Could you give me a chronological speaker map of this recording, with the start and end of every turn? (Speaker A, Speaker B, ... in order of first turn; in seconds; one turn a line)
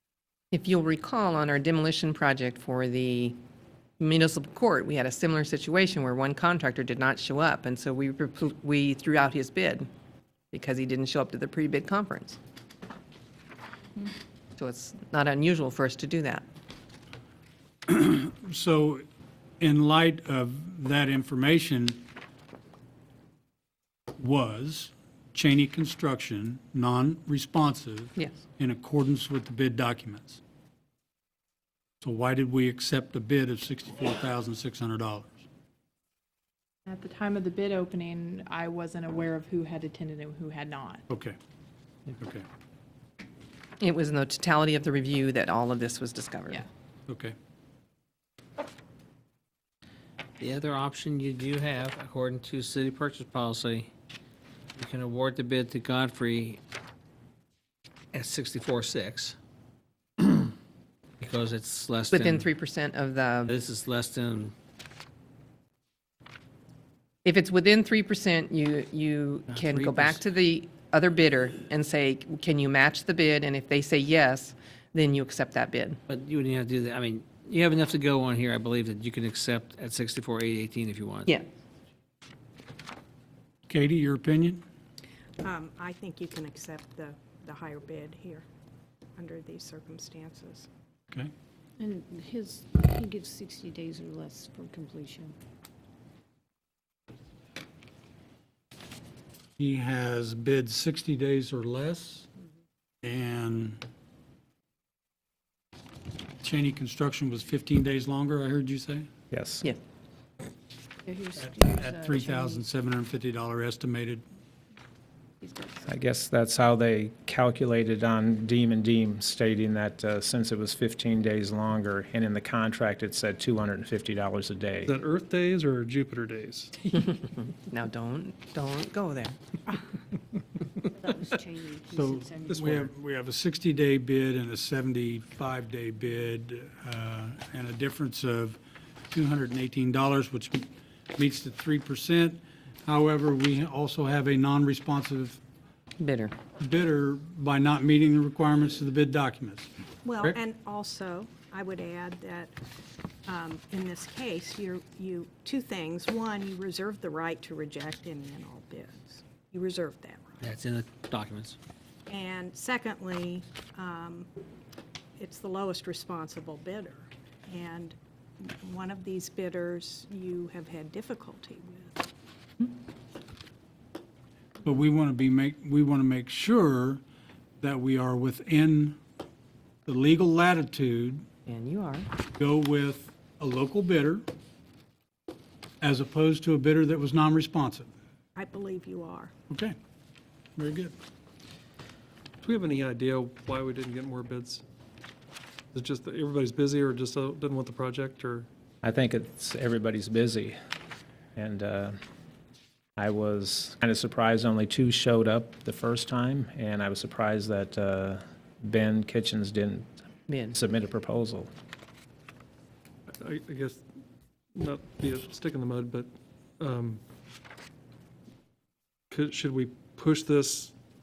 Speaker A: 0.5-3.4
Speaker A: 4.0-9.9
Speaker A: 10.5-12.4
Speaker A: 14.6-16.4
Speaker B: 17.9-19.1
Speaker B: 19.6-22.0
Speaker B: 24.2-30.4
Speaker B: 32.0-35.4
Speaker C: 36.9-41.0
Speaker B: 41.1-41.4
Speaker B: 42.1-42.4
Speaker A: 43.8-46.6
Speaker B: 47.1-47.4
Speaker D: 50.4-53.9
Speaker D: 54.8-56.6
Speaker D: 58.1-59.3
Speaker D: 61.2-62.5
Speaker A: 62.1-63.5
Speaker D: 63.5-64.5
Speaker A: 67.2-76.0
Speaker D: 69.5-70.2
Speaker D: 76.1-81.3
Speaker B: 83.7-84.6
Speaker E: 85.4-88.5
Speaker E: 89.1-90.7
Speaker F: 91.8-95.3
Speaker B: 99.6-102.3
Speaker B: 103.0-103.8
Speaker B: 106.4-109.1
Speaker G: 109.3-109.6
Speaker F: 111.0-112.6
Speaker B: 111.4-114.2
Speaker F: 115.4-115.9
Speaker G: 115.8-124.9
Speaker H: 124.8-126.8
Speaker A: 127.0-129.4
Speaker F: 131.0-132.9
Speaker B: 131.9-138.6
Speaker B: 139.1-145.4
Speaker A: 146.0-146.3
Speaker B: 146.6-150.3
Speaker E: 150.0-152.6
Speaker E: 153.2-160.3
Speaker D: 160.4-161.6
Speaker E: 162.1-164.3
Speaker E: 165.2-172.1
Speaker B: 174.6-177.0
Speaker B: 177.6-179.0
Speaker B: 179.8-181.2
Speaker A: 181.4-182.1
Speaker B: 182.4-184.2
Speaker B: 185.8-187.9
Speaker E: 188.3-189.3
Speaker B: 189.5-189.8
Speaker B: 190.6-190.9
Speaker H: 192.4-194.6
Speaker H: 195.7-198.5
Speaker G: 198.8-200.6
Speaker G: 201.3-201.9
Speaker G: 203.0-209.9
Speaker A: 210.3-210.6
Speaker G: 210.5-211.5
Speaker H: 213.2-213.8
Speaker H: 214.5-217.0
Speaker H: 219.1-220.7